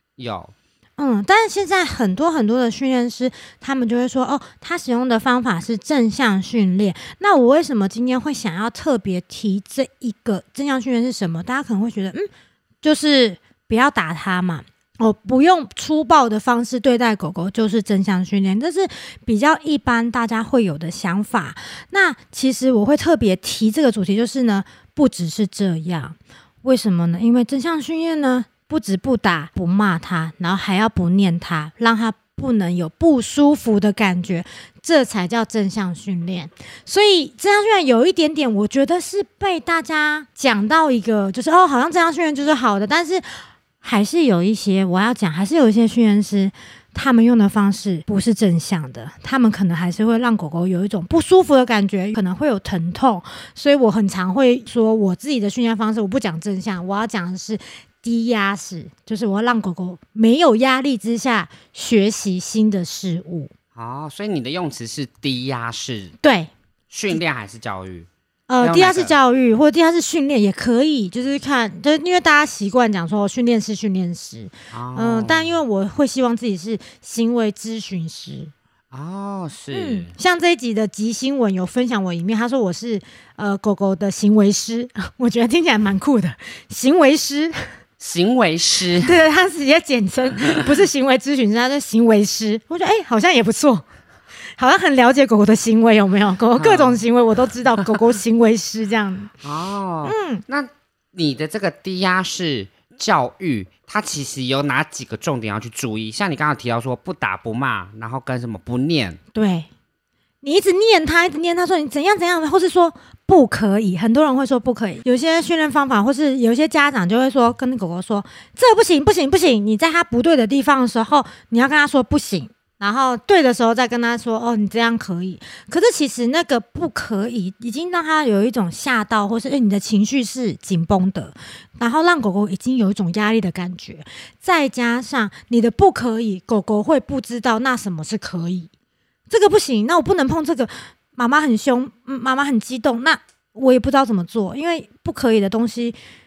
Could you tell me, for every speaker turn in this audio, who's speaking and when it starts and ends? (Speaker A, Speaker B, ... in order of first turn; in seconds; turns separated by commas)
Speaker A: 0.2-0.5, Speaker B: 1.0-12.3, Speaker B: 12.8-43.2, Speaker B: 43.8-63.5, Speaker A: 63.7-66.2, Speaker B: 66.2-66.5, Speaker A: 66.9-68.1, Speaker B: 68.5-78.5, Speaker A: 68.6-69.1, Speaker A: 74.7-75.6, Speaker A: 78.9-80.1, Speaker B: 79.7-87.5, Speaker A: 88.0-89.2, Speaker B: 89.0-93.8, Speaker B: 94.6-99.3, Speaker A: 96.5-97.0, Speaker A: 99.4-109.2, Speaker B: 100.0-100.4, Speaker B: 109.3-109.7, Speaker B: 110.4-138.7, Speaker B: 139.3-145.9